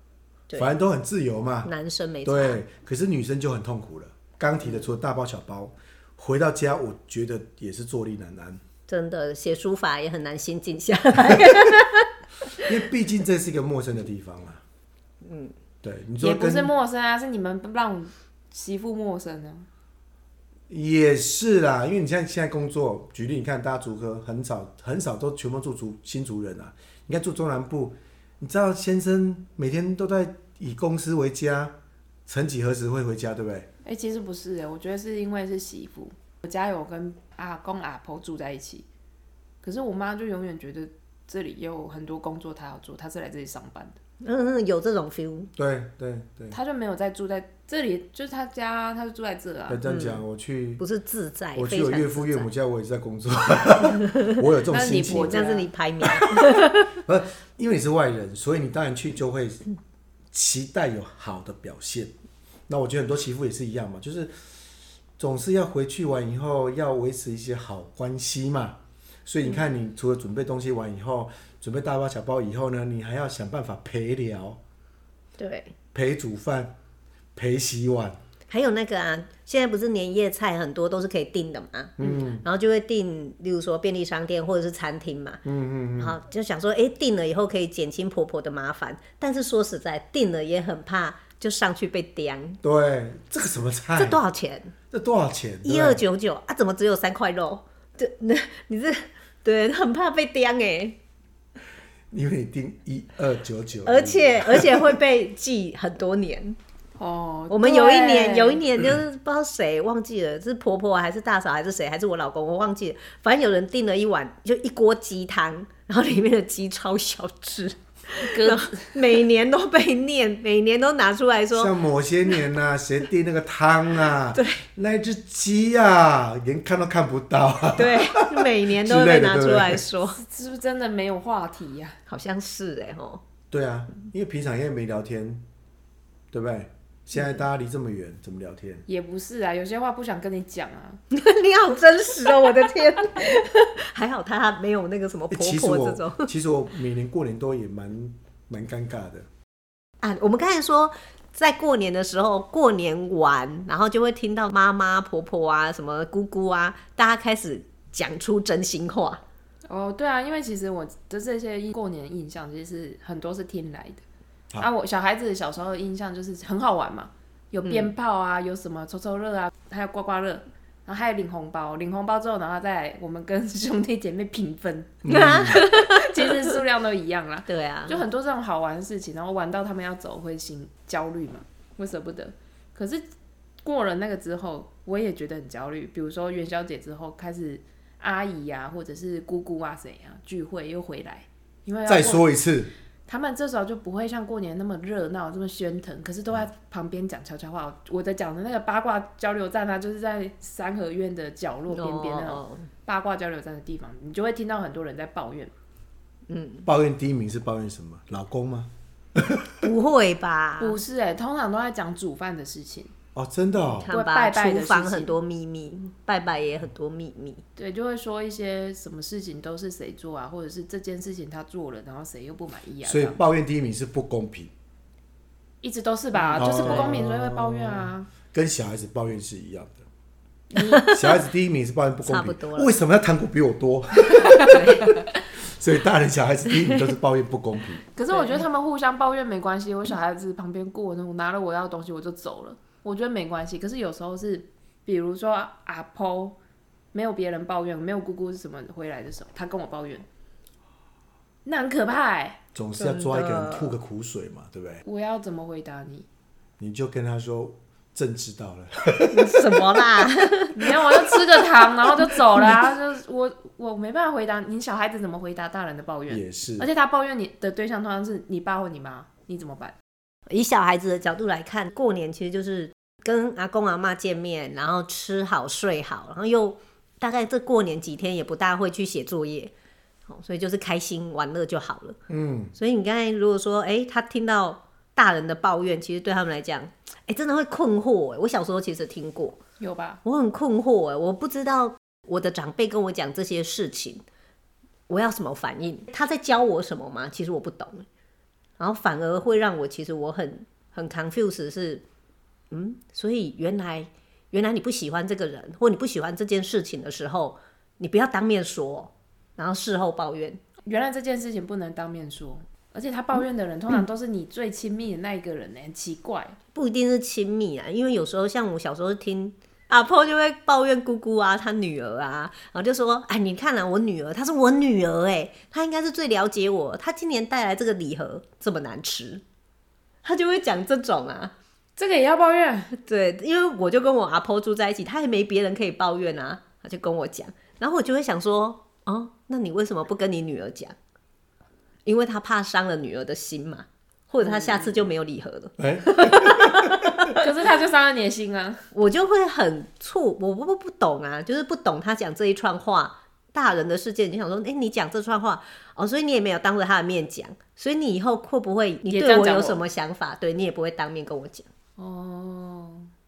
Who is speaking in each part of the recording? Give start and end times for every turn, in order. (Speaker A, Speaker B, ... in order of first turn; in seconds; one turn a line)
Speaker A: 0.6-1.7
Speaker B: 1.6-2.6
Speaker A: 2.2-8.6
Speaker B: 8.9-12.1
Speaker A: 11.3-11.6
Speaker A: 12.6-14.6
Speaker B: 15.2-15.5
Speaker A: 15.8-16.7
Speaker C: 16.2-19.7
Speaker A: 20.7-31.7
Speaker A: 32.3-33.7
Speaker C: 33.8-38.9
Speaker C: 39.6-44.0
Speaker B: 44.2-45.5
Speaker A: 45.5-46.6
Speaker C: 46.5-49.8
Speaker A: 49.7-50.8
Speaker B: 49.9-50.2
Speaker B: 50.8-52.5
Speaker A: 51.5-55.5
Speaker B: 54.0-54.3
Speaker C: 54.7-55.7
Speaker B: 55.2-56.9
Speaker A: 56.1-56.4
Speaker A: 56.9-59.6
Speaker A: 60.3-62.1
Speaker A: 62.7-64.3
Speaker A: 65.2-74.6
Speaker B: 75.4-75.7
Speaker A: 75.9-76.7
Speaker A: 77.3-78.2
Speaker B: 78.5-85.4
Speaker A: 82.0-82.4
Speaker A: 85.4-86.2
Speaker B: 86.0-92.6
Speaker A: 92.6-94.2
Speaker B: 94.0-94.7
Speaker A: 94.9-96.0
Speaker B: 95.6-101.0
Speaker A: 102.1-105.0
Speaker B: 103.8-106.6
Speaker C: 107.0-108.6
Speaker B: 107.5-121.7
Speaker C: 118.2-119.1
Speaker A: 121.5-129.8
Speaker B: 124.3-124.6
Speaker B: 127.8-130.2
Speaker C: 130.1-132.0
Speaker B: 132.1-133.2
Speaker A: 133.5-135.4
Speaker A: 136.3-138.8
Speaker C: 138.9-141.0
Speaker B: 141.1-146.3
Speaker A: 145.3-149.3
Speaker B: 150.0-159.2
Speaker C: 159.7-164.0
Speaker C: 164.6-183.1
Speaker B: 167.6-167.9
Speaker A: 175.0-175.6
Speaker B: 175.1-176.6
Speaker B: 177.5-178.0
Speaker C: 183.6-192.2
Speaker A: 191.8-192.7
Speaker C: 193.1-205.5
Speaker B: 201.7-202.7
Speaker B: 206.3-206.7
Speaker A: 206.6-209.6
Speaker B: 209.6-210.8
Speaker C: 210.6-212.9
Speaker A: 213.1-213.9
Speaker C: 213.8-215.1
Speaker B: 213.8-217.4
Speaker C: 217.6-223.2
Speaker A: 222.8-224.5
Speaker C: 225.6-228.1
Speaker B: 226.1-226.9
Speaker A: 226.4-229.8
Speaker B: 230.5-231.2
Speaker A: 230.8-237.8
Speaker B: 232.1-232.7
Speaker B: 234.3-234.9
Speaker C: 234.5-235.0
Speaker C: 237.9-246.4
Speaker B: 238.1-238.4
Speaker C: 246.9-250.1
Speaker C: 251.4-252.4
Speaker A: 252.5-254.8
Speaker B: 252.8-253.7
Speaker C: 254.8-256.1
Speaker A: 256.6-259.7
Speaker B: 259.1-260.8
Speaker C: 260.5-269.7
Speaker A: 266.1-266.7
Speaker B: 270.3-279.5
Speaker B: 280.1-282.0
Speaker A: 282.1-282.5
Speaker B: 282.5-289.4
Speaker C: 289.6-290.0
Speaker B: 290.0-294.0
Speaker B: 294.9-297.9
Speaker B: 298.6-301.8
Speaker B: 302.5-310.4
Speaker C: 310.6-316.4
Speaker B: 316.5-329.2
Speaker B: 330.0-331.3
Speaker C: 331.8-332.7
Speaker B: 332.7-340.8
Speaker B: 341.8-347.2
Speaker C: 344.2-344.8
Speaker A: 345.6-347.1
Speaker C: 347.1-348.6
Speaker B: 348.7-361.5
Speaker C: 358.8-359.6
Speaker C: 361.8-362.9